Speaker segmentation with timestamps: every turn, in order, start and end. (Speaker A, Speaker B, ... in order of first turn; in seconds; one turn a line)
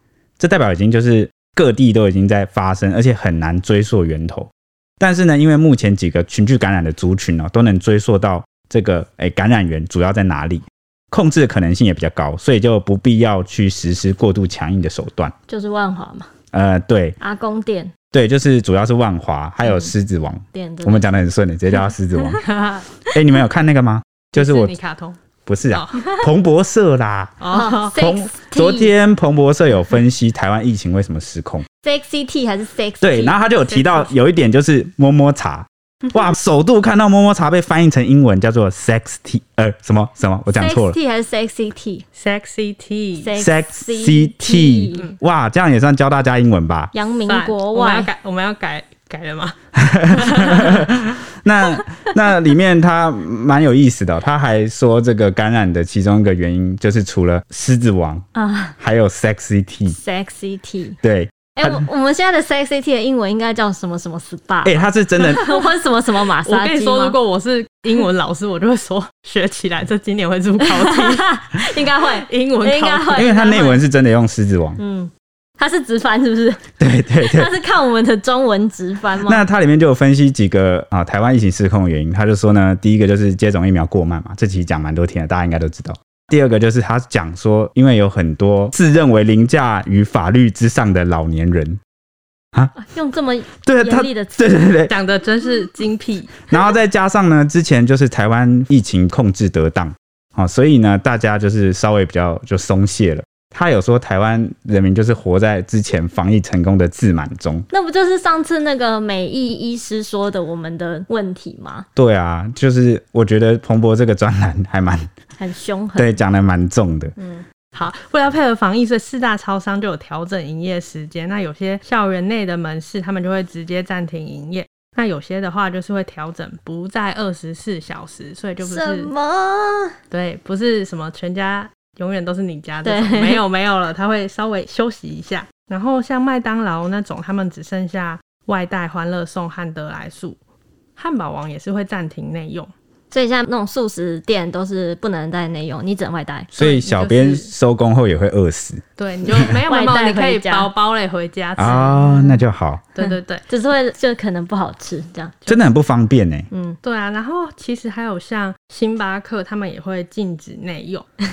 Speaker A: 0.4-15.3
Speaker B: 15.5-16.3
Speaker A: 16.5-17.2
Speaker B: 17.2-17.9
Speaker A: 18.1-22.4
Speaker B: 19.6-19.9
Speaker B: 20.5-21.1
Speaker C: 22.4-22.8
Speaker A: 23.1-24.7
Speaker C: 24.3-25.2
Speaker A: 25.4-27.4
Speaker C: 25.7-26.0
Speaker C: 27.4-27.9
Speaker B: 27.5-28.9
Speaker A: 27.9-31.6
Speaker B: 31.8-34.1
Speaker A: 33.0-41.0
Speaker B: 40.5-42.0
Speaker C: 42.1-43.3
Speaker B: 43.2-45.1
Speaker A: 43.4-46.9
Speaker B: 46.9-48.1
Speaker C: 47.2-49.5
Speaker A: 49.8-58.2
Speaker C: 50.1-50.8
Speaker B: 58.3-58.8
Speaker A: 58.8-60.0
Speaker B: 59.9-61.0
Speaker A: 61.0-61.8
Speaker B: 61.5-67.2
Speaker A: 64.6-65.5
Speaker C: 66.4-71.2
Speaker B: 70.7-73.8
Speaker C: 72.0-73.3
Speaker A: 73.1-74.8
Speaker B: 74.8-76.6
Speaker A: 76.8-77.5
Speaker B: 77.2-79.4
Speaker A: 79.2-91.8
Speaker B: 92.7-94.7
Speaker A: 93.7-94.9
Speaker C: 94.9-96.3
Speaker A: 96.5-107.7
Speaker B: 107.7-111.8
Speaker A: 112.0-115.1
Speaker B: 115.4-116.2
Speaker A: 115.9-117.1
Speaker C: 117.7-129.1
Speaker B: 128.6-129.9
Speaker C: 130.1-140.4
Speaker B: 132.8-133.4
Speaker C: 141.0-142.7
Speaker B: 143.1-146.5
Speaker A: 146.5-149.5
Speaker C: 146.6-147.5
Speaker C: 149.0-152.2
Speaker B: 149.7-150.7
Speaker A: 151.6-152.8
Speaker B: 151.6-152.4
Speaker C: 152.9-153.4
Speaker B: 153.0-155.4
Speaker A: 155.5-156.5
Speaker B: 156.5-156.8
Speaker C: 156.8-161.1